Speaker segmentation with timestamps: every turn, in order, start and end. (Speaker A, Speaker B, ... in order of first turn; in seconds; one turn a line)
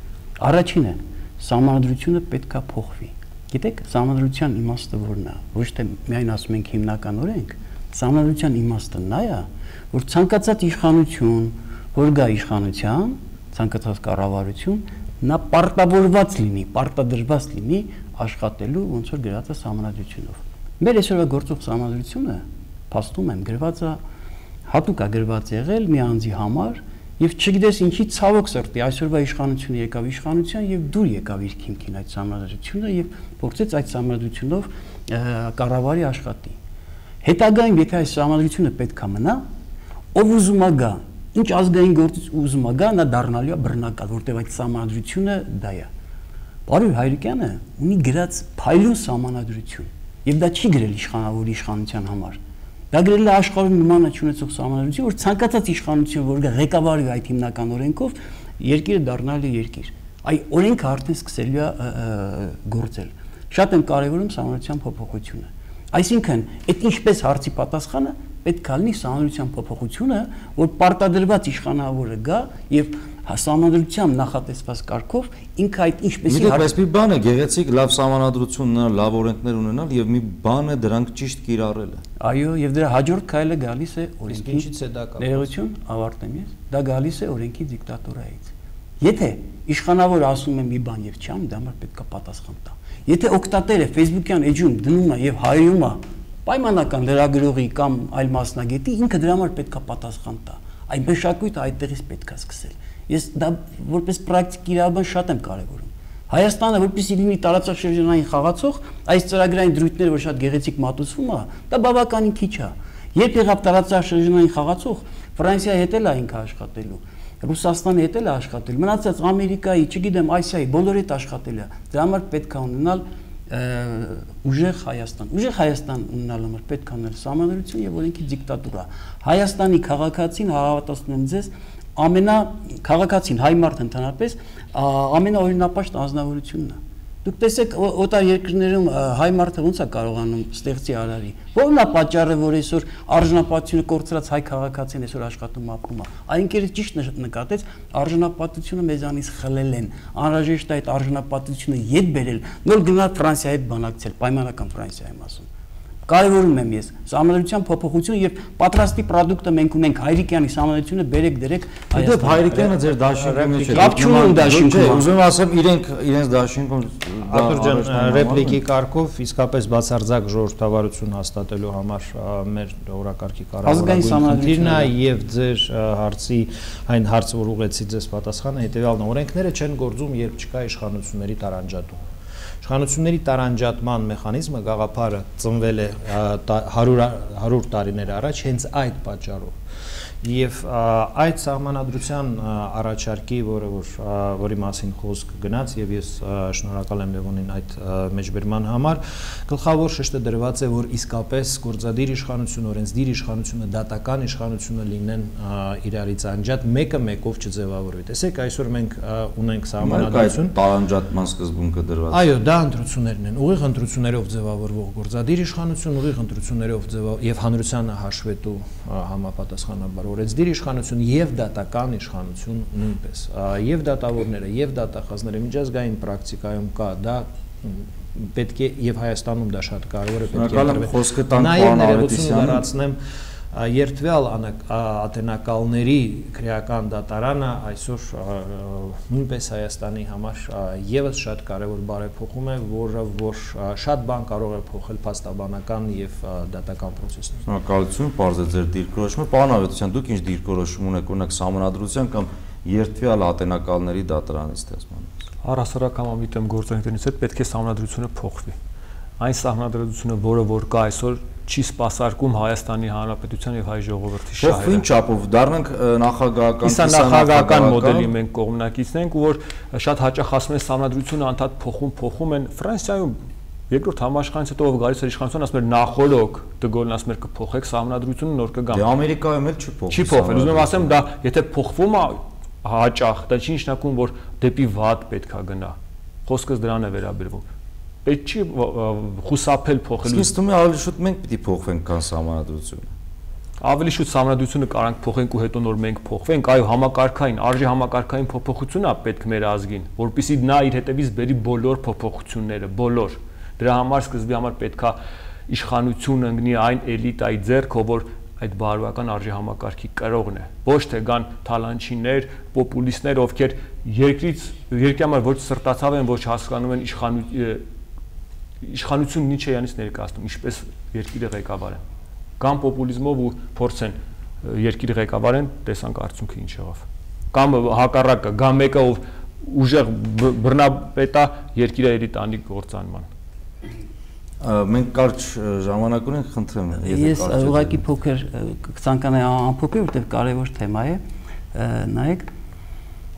Speaker A: 0.4-24.0
Speaker A: 24.7-36.6
Speaker A: 37.2-39.5
Speaker A: 40.1-45.9
Speaker A: 46.7-52.4
Speaker A: 52.9-76.7
Speaker B: 76.3-82.0
Speaker A: 82.2-155.5
Speaker C: 84.3-85.5
Speaker A: 156.1-162.8
Speaker B: 161.9-168.6
Speaker C: 163.3-163.9
Speaker A: 163.5-165.1
Speaker C: 167.2-182.0
Speaker A: 173.6-174.9
Speaker C: 182.6-189.6
Speaker C: 190.2-210.5
Speaker B: 209.8-212.2
Speaker C: 212.1-233.0
Speaker B: 230.3-232.6
Speaker C: 233.5-247.4
Speaker B: 247.4-255.2
Speaker D: 255.4-258.6
Speaker D: 259.2-264.8
Speaker B: 264.4-268.1
Speaker D: 266.6-273.1
Speaker D: 273.7-278.8
Speaker B: 278.7-280.9
Speaker D: 279.9-285.7
Speaker D: 286.2-287.4
Speaker D: 288.0-290.3
Speaker B: 290.0-292.9
Speaker D: 293.6-305.0
Speaker D: 305.5-317.6
Speaker D: 318.6-321.8
Speaker D: 322.4-333.1
Speaker B: 334.4-337.8
Speaker A: 336.8-341.0
Speaker A: 341.5-342.3